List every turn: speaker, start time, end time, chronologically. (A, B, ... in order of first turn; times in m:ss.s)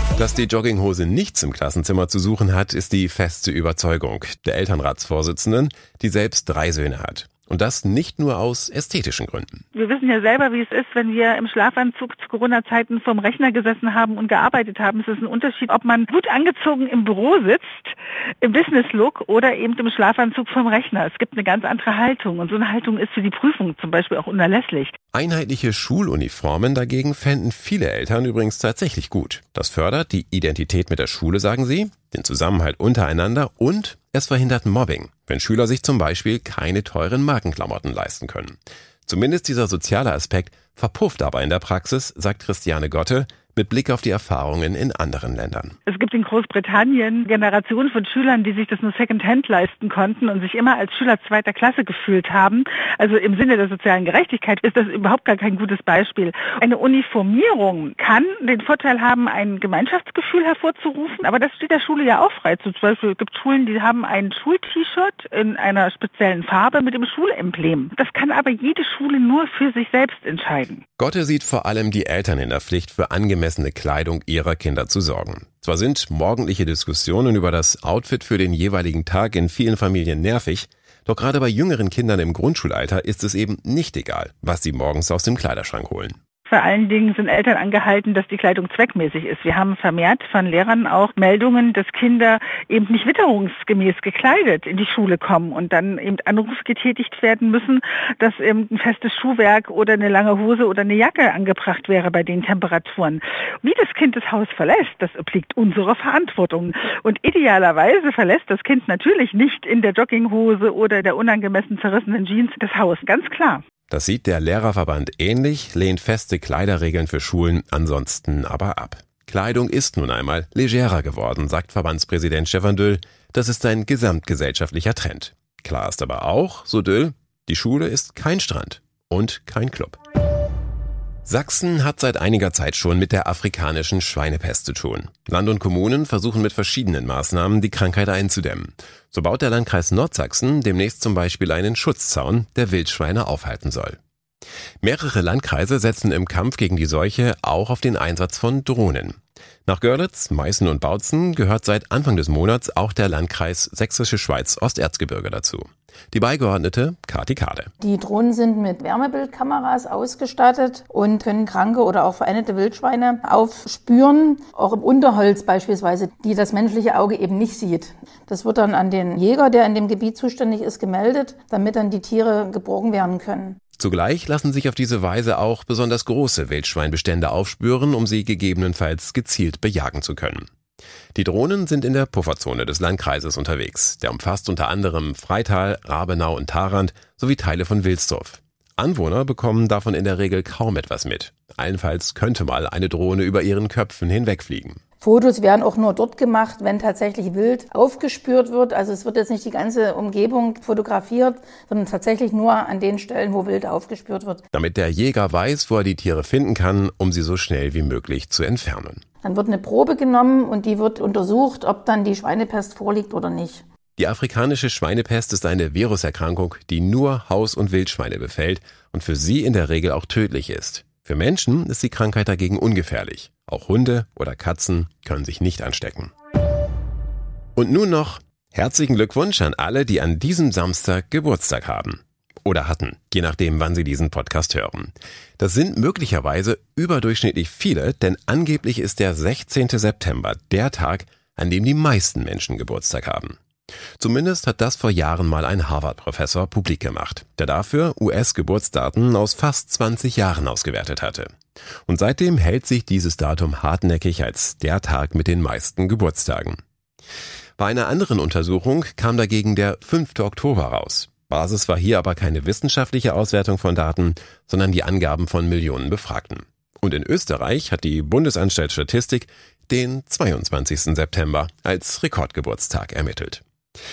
0:00.2-0:09.6 A
0:09.7-0:25.0 B
0:25.1-0:45.8 A
0:45.9-1:10.8 B
1:11.0-1:26.2 A
1:26.5-1:53.6 B
1:53.9-2:10.0 A
2:11.3-2:24.0 A
2:24.8-2:37.7 A
2:37.8-2:53.6 C
2:53.8-3:00.5 A
3:01.2-3:14.8 A
3:15.0-3:24.4 C
3:24.5-3:29.0 A
3:29.2-3:33.6 C
3:34.0-3:46.1 A
3:47.6-4:03.4 A
4:04.0-4:11.3 A
4:11.9-4:16.6 A
4:17.6-4:33.4 A